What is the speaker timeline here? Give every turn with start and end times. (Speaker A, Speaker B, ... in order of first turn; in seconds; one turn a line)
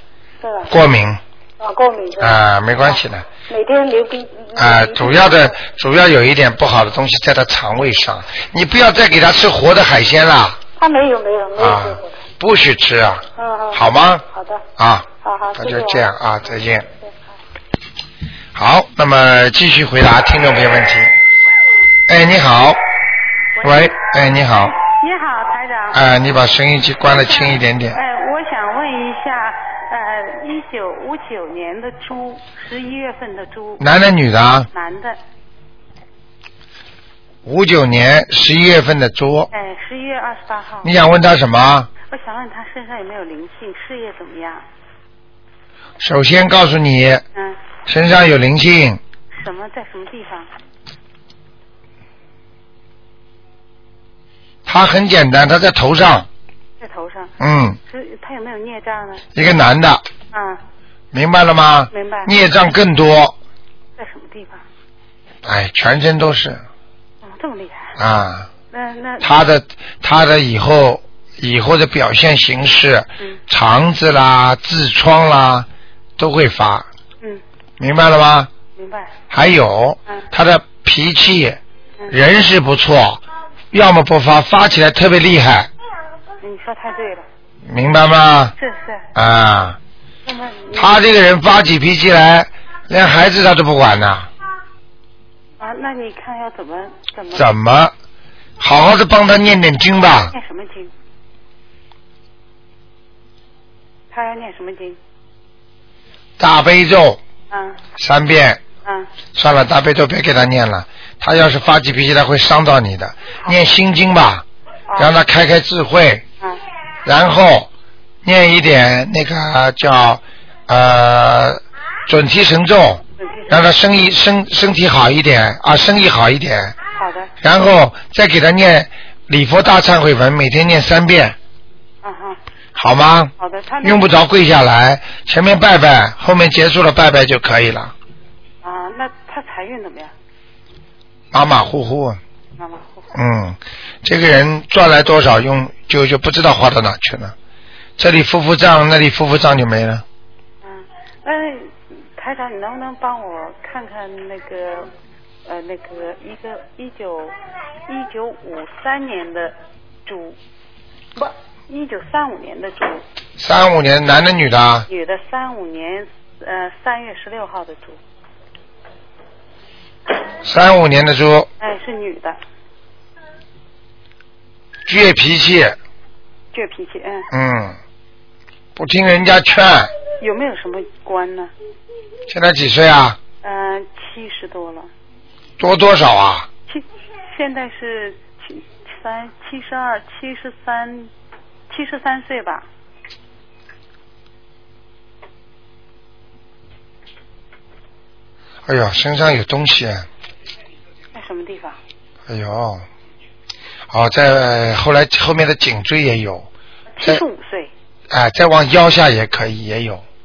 Speaker A: 0.4-0.7
Speaker B: 0.7-1.2
Speaker A: 1.6-5.6
Speaker B: 2.2-3.3
Speaker B: 4.6-10.6
Speaker A: 10.8-12.2
Speaker B: 11.6-14.2
Speaker A: 13.4-14.7
Speaker B: 14.8-16.9
Speaker A: 15.2-17.3
Speaker B: 18.5-21.1
Speaker B: 22.1-22.8
Speaker B: 23.6-24.8
Speaker C: 24.9-26.0
Speaker B: 25.9-28.0
Speaker C: 27.1-33.9
Speaker B: 33.8-34.7
Speaker C: 34.7-35.2
Speaker B: 37.5-39.5
Speaker C: 39.5-40.9
Speaker B: 40.8-41.9
Speaker C: 42.1-44.7
Speaker B: 46.0-47.2
Speaker B: 47.9-49.0
Speaker C: 49.3-50.5
Speaker B: 54.7-56.3
Speaker C: 56.8-57.3
Speaker B: 57.4-57.8
Speaker C: 57.9-59.2
Speaker B: 59.4-60.0
Speaker C: 60.3-60.6
Speaker B: 61.1-63.4
Speaker C: 61.9-62.3
Speaker C: 64.0-64.6
Speaker B: 65.4-66.6
Speaker C: 67.2-68.0
Speaker B: 68.0-68.5
Speaker C: 68.7-69.3
Speaker B: 69.2-76.9
Speaker B: 77.8-78.5
Speaker C: 78.8-79.2
Speaker B: 79.3-83.2
Speaker B: 83.7-85.7
Speaker C: 86.4-87.3
Speaker B: 87.7-88.5
Speaker C: 88.6-89.1
Speaker B: 89.2-89.8
Speaker C: 90.3-90.9
Speaker B: 90.7-94.3
Speaker C: 95.6-97.5
Speaker B: 97.3-97.9
Speaker B: 98.6-100.3
Speaker C: 100.3-100.9
Speaker C: 104.1-105.0
Speaker B: 106.4-107.2
Speaker C: 107.5-107.8
Speaker B: 108.0-108.6
Speaker C: 108.8-109.1
Speaker B: 109.3-114.5
Speaker C: 114.9-115.2
Speaker B: 115.0-116.2
Speaker B: 117.0-117.7
Speaker B: 118.2-126.8
Speaker C: 123.2-123.6
Speaker C: 127.0-127.3
Speaker B: 127.4-131.4
Speaker C: 132.0-132.4
Speaker B: 132.8-137.9
Speaker C: 133.4-134.1
Speaker C: 138.6-140.1
Speaker B: 141.3-142.2
Speaker C: 142.6-143.1
Speaker B: 143.1-147.3
Speaker B: 148.0-150.0
Speaker C: 150.6-154.9
Speaker C: 155.5-157.3
Speaker C: 157.9-160.4
Speaker C: 161.2-163.0
Speaker B: 163.4-164.9
Speaker C: 164.9-168.0
Speaker B: 170.4-171.5
Speaker C: 171.6-172.4
Speaker B: 174.9-175.8
Speaker C: 176.5-177.3
Speaker B: 177.3-177.8
Speaker B: 178.8-179.9
Speaker C: 180.2-181.5
Speaker B: 182.3-183.2
Speaker C: 183.4-184.9
Speaker B: 185.6-186.5
Speaker C: 186.7-191.1
Speaker C: 191.7-192.7
Speaker B: 198.7-200.1
Speaker C: 201.1-201.8
Speaker B: 202.3-202.8
Speaker B: 203.9-206.5
Speaker C: 206.9-207.7
Speaker B: 208.1-210.0